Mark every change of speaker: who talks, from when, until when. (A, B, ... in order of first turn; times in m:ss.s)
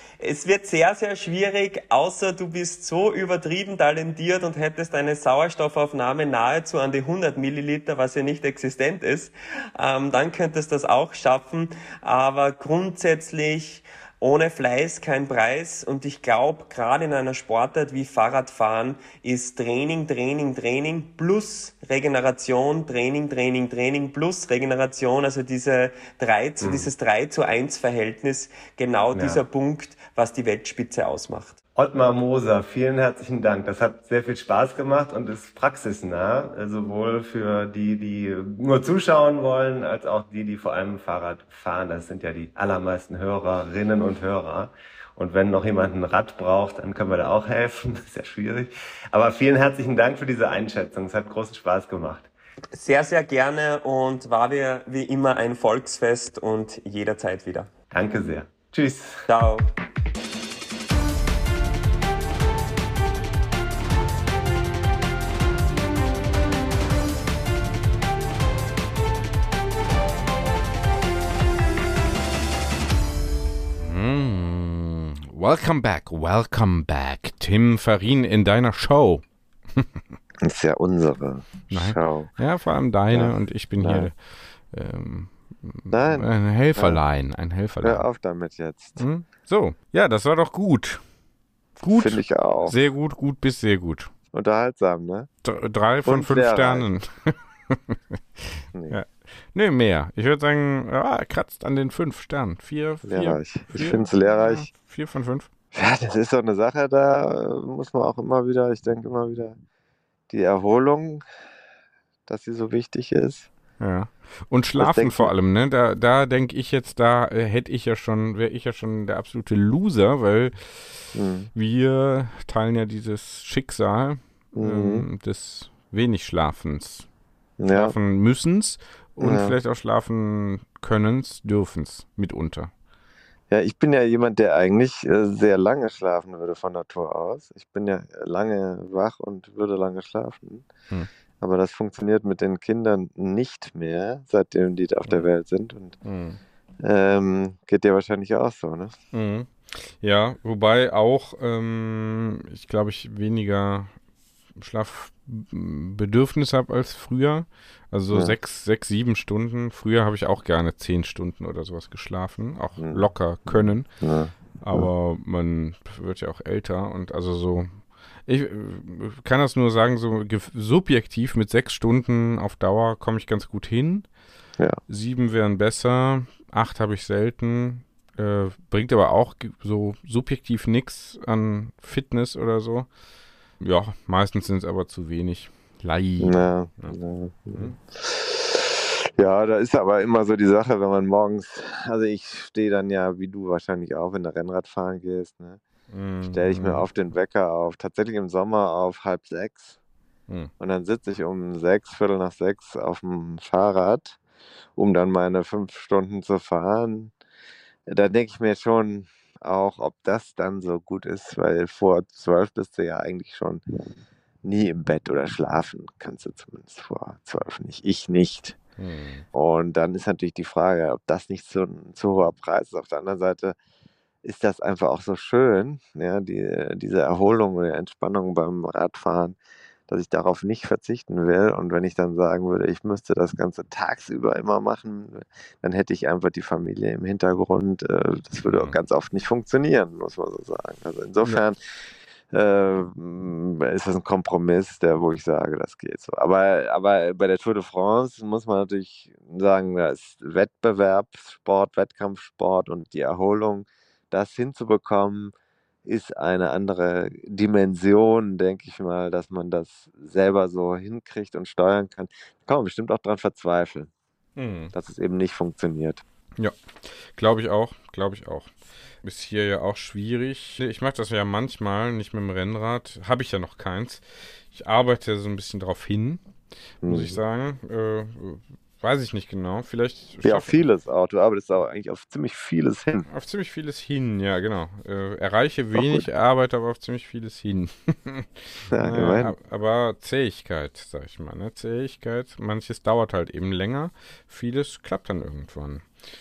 0:00.2-0:31.6 A
0:26.6-0:26.9 B
0:29.1-0:29.4 B
0:31.8-0:52.3 B
0:52.7-0:57.7 A
0:57.9-0:59.2 B
0:59.3-0:59.7 A
1:13.8-1:19.2 C
1:20.4-1:22.3 D
1:21.7-1:24.2 C
1:23.1-1:24.1 D
1:24.7-1:28.1 C
1:25.9-1:27.0 D
1:27.8-1:29.0 D
1:29.0-1:31.0 C
1:31.8-1:34.1 C
1:31.9-1:32.8 D
1:34.3-1:35.3 D
1:35.4-1:45.5 C
1:36.1-1:36.9 D
1:43.0-1:44.7 D
1:45.7-1:49.6 D
1:50.3-1:51.2 D
1:52.3-1:53.5 D
1:53.8-2:07.1 C
1:54.8-1:55.3 D
2:01.2-2:01.5 D
2:04.6-2:05.1 D
2:07.6-2:08.0 D
2:07.7-2:12.7 C
2:09.2-2:09.6 D
2:13.5-2:20.7 D
2:21.4-2:26.0 D
2:26.0-2:26.4 C
2:26.8-2:29.0 D
2:29.1-2:33.9 C
2:34.6-2:43.9 C
2:42.8-2:44.9 D
2:44.6-2:54.1 C
2:54.9-3:02.9 C
3:03.6-3:07.0 C
3:06.2-3:15.6 D
3:15.9-3:16.9 C
3:16.3-3:19.8 D
3:20.6-3:24.2 D
3:24.8-3:27.1 D
3:27.9-3:33.6 D
3:34.4-3:38.6 D
3:38.8-3:39.3 C
3:39.4-3:43.6 D
3:44.2-3:49.4 D
3:49.9-4:01.6 D
3:58.5-3:58.8 C
4:02.3-4:15.3 D
4:15.8-4:23.9 D
4:24.4-4:24.7 C
4:24.7-4:26.0 D
4:26.4-4:28.5 C
4:29.0-4:36.2 C
4:36.8-4:37.2 D
4:36.8-4:40.6 C
4:40.2-4:43.1 D
4:43.1-4:55.9 C
4:45.8-4:46.0 D
4:48.7-4:49.4 D